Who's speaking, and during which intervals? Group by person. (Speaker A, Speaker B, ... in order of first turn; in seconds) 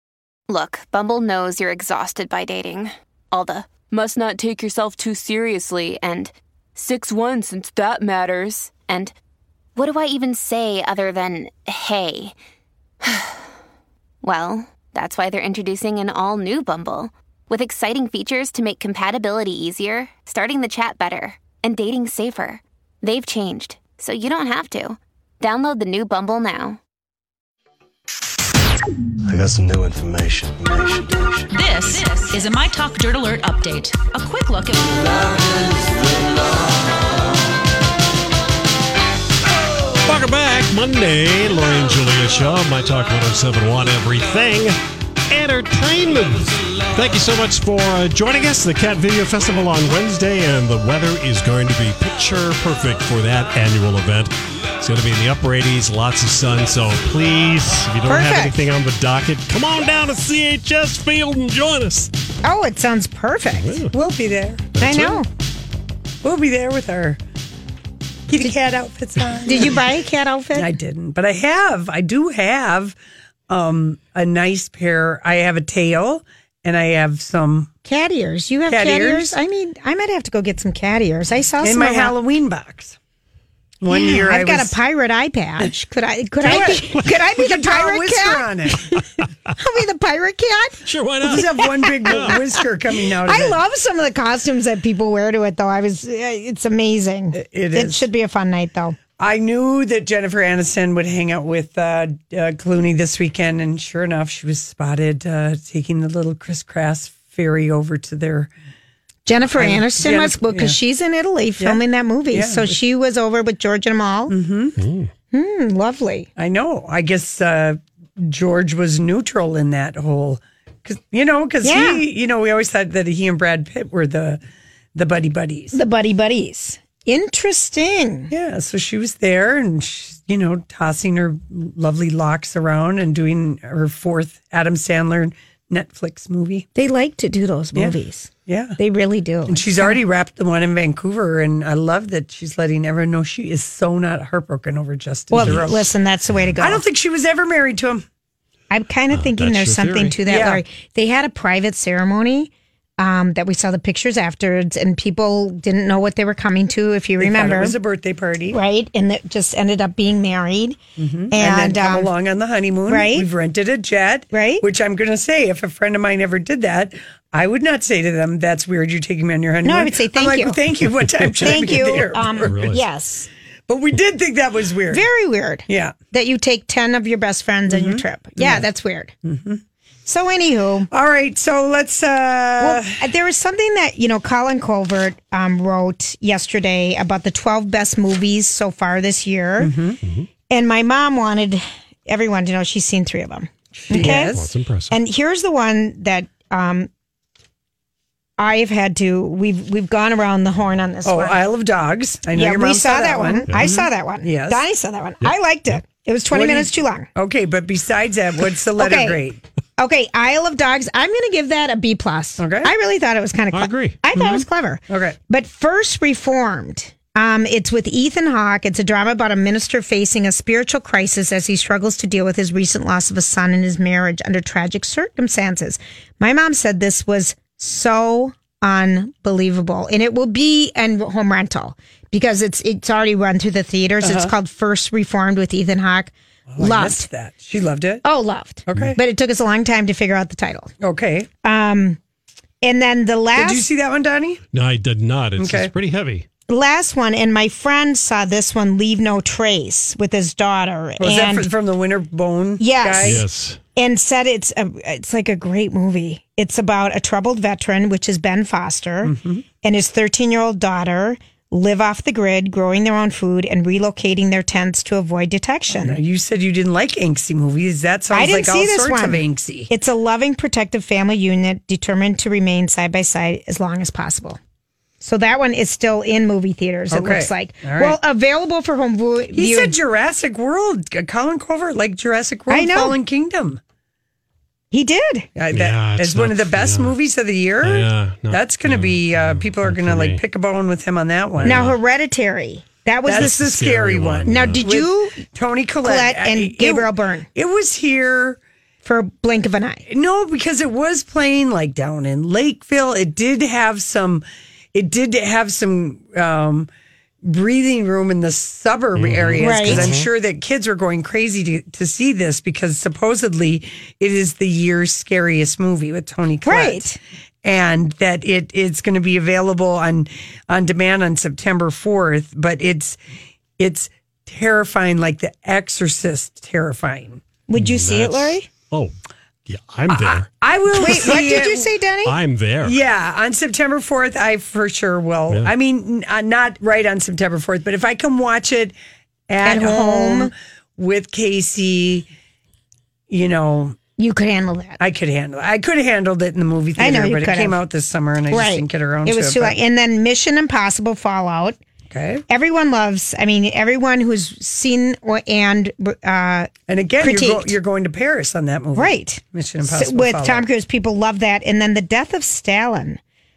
Speaker A: 0.5-9.1, 9.8-12.3, 13.0-13.4, 14.2-26.8
Speaker B: 29.2-32.0
Speaker C: 31.5-35.5
Speaker D: 40.0-44.8, 45.3-62.1, 63.6-63.9, 64.8-65.2, 90.8-91.5, 92.0-92.3, 114.8-115.1, 145.3-145.7, 149.1-150.2, 172.4-172.8, 193.9-194.9, 205.2-205.7, 213.5-214.0, 244.5-246.2, 253.0-253.6, 285.5-286.9, 287.6-290.2, 291.4-291.8, 293.1-294.6, 308.9-310.1, 327.5-328.9, 329.5-331.2, 332.0-332.8
Speaker E: 58.0-58.6, 62.4-63.9, 64.8-65.3, 69.4-70.7, 77.8-82.1, 83.9-89.0, 89.6-92.3, 93.2-99.0, 109.2-114.3, 115.3-116.3, 121.6-122.0, 125.7-128.3, 136.7-140.0, 145.3-146.8, 148.7-157.8, 158.5-160.8, 161.3-162.1, 162.9-163.3, 164.3-164.6, 169.6-170.6, 171.4-173.3, 174.9-179.1, 180.1-180.9, 182.6-189.7, 190.5-194.4, 194.9-196.9, 198.4-201.4, 202.3-207.1, 208.8-209.2, 209.8-237.1, 238.0-240.7, 241.4-242.0, 242.6-243.6, 246.5-251.5, 252.6-253.2, 253.7-266.0, 268.1-274.4, 275.0-279.8, 282.5-283.0, 284.7-285.3, 291.4-293.4, 294.2-295.2, 295.8-297.3, 298.8-299.8, 309.4-310.0, 316.4-317.0, 327.5-328.5, 330.7-332.2, 339.4-340.3, 344.0-344.8, 346.8-347.6, 348.3-351.6, 352.3-357.6, 358.7-363.0
Speaker F: 63.9-64.8, 66.2-67.2, 68.3-69.8, 70.5-73.0, 73.5-77.7, 78.7-79.3, 81.6-83.0, 83.8-84.8, 86.4-88.8, 91.2-93.6, 97.3-98.0, 99.2-108.5, 109.5-110.8, 112.3-112.8, 114.3-114.8, 116.4-124.4, 124.9-125.8, 128.3-136.7, 137.8-138.8, 139.5-145.9, 146.6-148.0, 150.2-150.6, 157.2-158.6, 161.0-172.5, 173.7-175.1, 175.7-175.9, 177.7-178.7, 179.2-179.6, 180.9-183.0, 189.6-190.0, 193.8-194.5, 201.0-204.6, 206.3-209.4, 212.4-212.7, 214.2-215.2, 234.0-234.3, 236.5-238.0, 238.7-239.0, 240.8-241.3, 243.3-244.4, 245.4-245.7, 251.0-253.2, 259.0-259.4, 265.7-269.7, 276.9-277.9, 279.3-283.6, 285.4-291.6, 293.1-298.4, 299.9-306.7, 307.2-316.8, 317.4-323.0, 323.6-327.2, 329.9-331.6, 332.6-338.7, 339.3-342.1, 343.1-343.8, 344.8-349.6, 351.9-352.2, 356.7-360.4